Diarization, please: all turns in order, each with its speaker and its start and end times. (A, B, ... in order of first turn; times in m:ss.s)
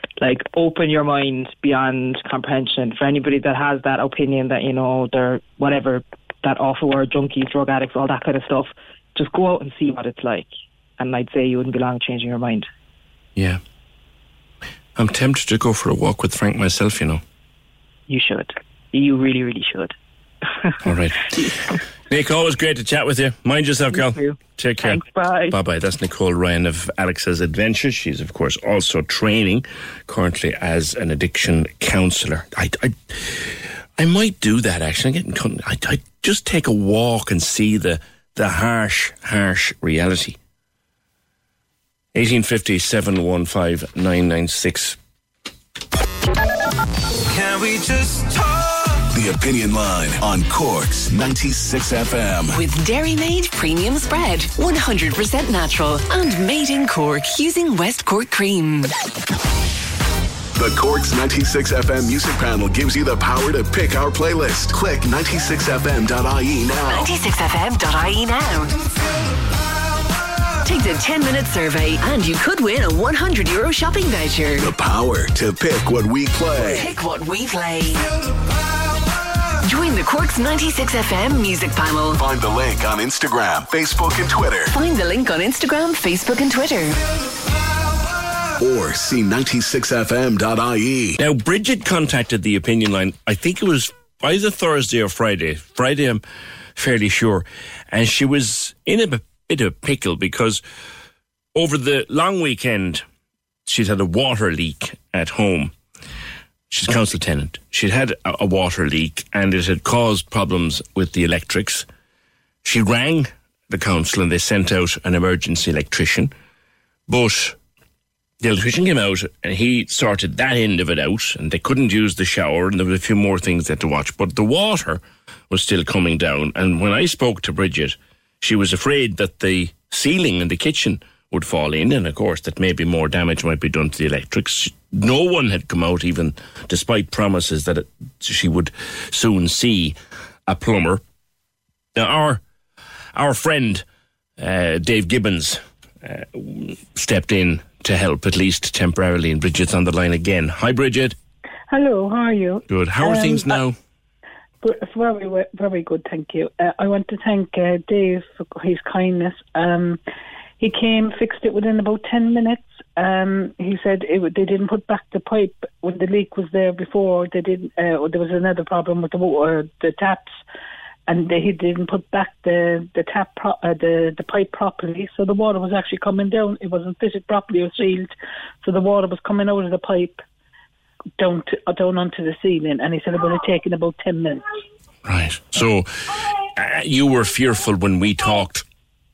0:00.2-0:12.7 A
0:13.4-0:13.6 B
0:15.0-0:17.2 B
0:18.1-0:20.0 A
0:20.8-0:21.4 B
0:22.1-0:40.4 B
0:24.0-0:24.3 A
0:24.8-0:25.6 C
0:42.1-0:45.0 B
0:49.1-0:52.6 D
0:52.5-0:58.9 E
1:00.6-1:07.2 D
1:06.9-1:08.8 E
1:10.6-1:14.7 E
1:14.6-1:16.9 D
1:16.6-1:18.1 E
1:19.6-1:22.2 E
1:22.1-1:24.7 D
1:24.7-1:27.0 E
1:28.6-1:31.2 D
1:31.2-1:36.2 B
1:36.8-1:40.6 B
1:41.6-1:43.0 B
1:43.7-1:45.7 B
1:46.7-1:51.9 B
1:52.6-1:56.3 B
1:57.1-1:57.6 B
1:58.4-2:21.0 B
2:22.0-2:22.4 B
2:23.2-2:23.8 B
2:24.4-2:31.2 B
2:31.7-2:33.6 C
2:32.7-2:33.8 B
2:34.6-2:40.0 C
2:40.6-2:50.3 C
2:51.1-2:58.1 C
2:58.6-3:00.2 C
3:01.2-3:04.5 C
3:05.0-3:08.6 B